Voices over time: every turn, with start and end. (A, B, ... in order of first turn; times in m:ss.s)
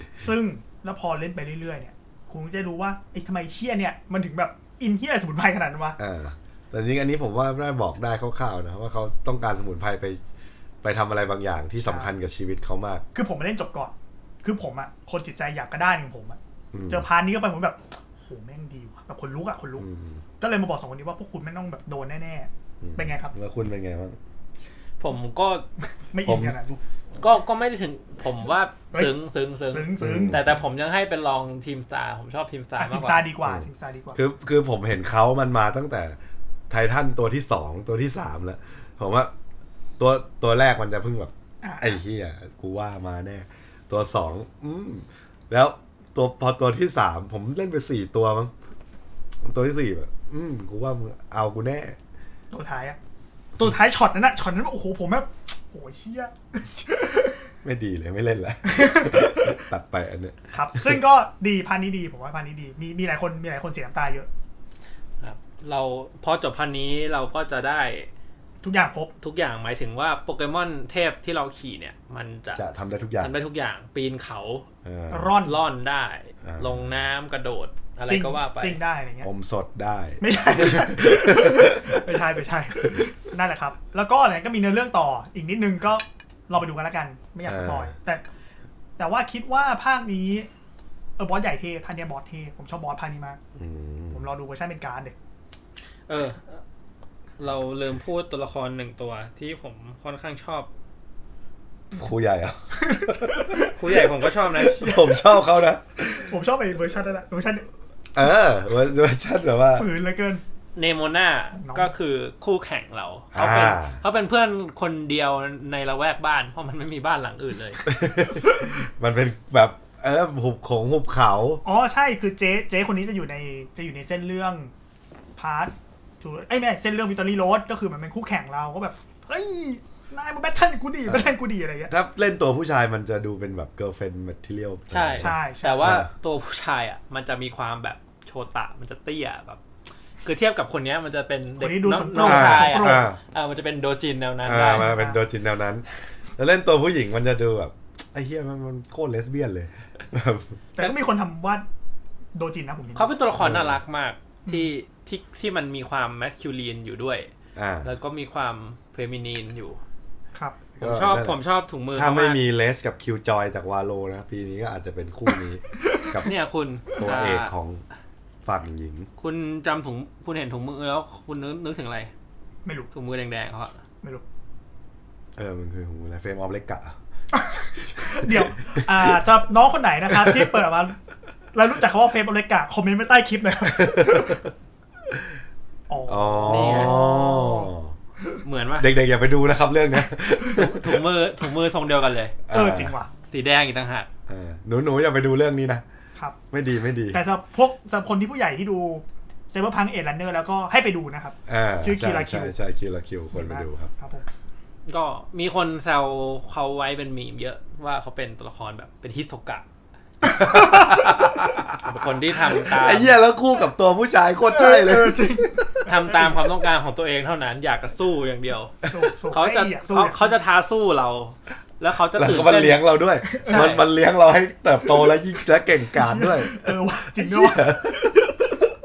0:00.2-0:06.0 A
0:06.0-0:10.2 B
0:10.8-0:13.0 B
0:11.8-0:12.1 A
0:13.2-0:19.9 A
0:16.7-0:17.1 B
0:19.8-0:20.2 B
0:20.4-0:23.3 A
0:22.8-0:24.2 B
0:25.0-0:25.7 C
0:26.1-0:26.8 A
0:26.2-0:26.6 B
0:27.2-0:33.2 C
0:29.7-0:30.5 A
0:30.0-0:30.4 B
0:32.8-0:34.2 A
0:33.4-0:36.2 B
0:36.7-0:39.3 B
0:40.0-0:48.5 B
0:41.6-0:42.0 A
0:49.4-0:52.0 B
0:52.5-0:53.0 A
0:53.6-0:57.5 A
0:57.6-1:01.0 B
0:58.7-0:59.6 A
1:00.5-1:04.3 A
1:05.2-1:08.1 C
1:08.6-1:09.1 A
1:09.2-1:12.6 C
1:12.6-1:13.3 B
1:13.2-1:14.7 C
1:14.8-1:15.3 B
1:15.1-1:15.6 A
1:15.4-1:18.8 C
1:16.4-1:17.0 B
1:18.1-1:19.3 A
1:19.2-1:22.0 B
1:20.2-1:28.2 A
1:22.8-1:23.1 B
1:27.5-1:27.9 B
1:29.0-1:30.5 A
1:31.2-1:33.4 A
1:33.6-1:34.2 B
1:34.1-1:35.2 A
1:36.1-1:36.6 C
1:37.4-1:40.7 C
1:41.9-1:43.6 B
1:42.8-1:47.7 A
1:43.6-1:44.9 C
1:44.8-1:46.2 B
1:48.1-1:49.9 B
1:49.7-1:50.4 A
1:50.8-1:57.8 C
1:51.5-1:51.9 A
1:53.3-1:54.0 B
1:57.8-2:01.6 B
2:01.6-2:04.7 A
2:05.4-2:11.9 A
2:11.9-2:16.1 B
2:14.9-2:19.6 C
2:15.2-2:16.0 A
2:20.2-2:24.9 C
2:21.6-2:23.1 A
2:22.2-2:23.2 B
2:24.5-2:25.8 B
2:24.6-2:25.2 A
2:26.4-2:30.6 B
2:30.8-2:31.6 A
2:32.4-2:33.1 A
2:33.0-2:37.3 C
2:33.4-2:33.8 B
2:34.5-2:34.7 A
2:37.6-2:37.9 B
2:37.8-2:39.8 C
2:40.3-2:40.8 A
2:40.8-2:41.4 B
2:40.8-2:42.4 C
2:41.9-2:46.3 B
2:46.2-2:47.5 C
2:47.0-2:47.8 B
2:48.4-2:49.1 B
2:49.2-2:52.1 C
2:52.6-2:52.9 A
2:52.9-2:53.8 C
2:55.4-2:57.0 B
2:57.3-3:01.0 A
2:58.0-2:59.2 B
3:00.1-3:00.6 B
3:01.5-3:04.4 A
3:03.7-3:04.4 B
3:05.9-3:07.7 A
3:06.1-3:07.9 B
3:06.5-3:07.0 C
3:08.4-3:08.9 C
3:08.8-3:11.0 B
3:10.5-3:12.4 C
3:12.5-3:13.0 B
3:12.5-3:13.1 A
3:13.3-3:14.1 C
3:14.3-3:15.8 B
3:16.5-3:17.2 B
3:17.1-3:22.6 A
3:21.5-3:23.9 B
3:23.3-3:24.3 A
3:24.9-3:29.6 C
3:30.2-3:31.2 A
3:30.3-3:32.0 B
3:31.8-3:33.2 C
3:32.6-3:35.8 B
3:34.5-3:36.5 A
3:35.8-3:38.8 C
3:38.8-3:40.3 A
3:39.3-3:42.8 C
3:42.1-3:48.3 B
3:43.2-3:43.9 A
3:43.5-3:43.8 C
3:45.9-3:48.2 A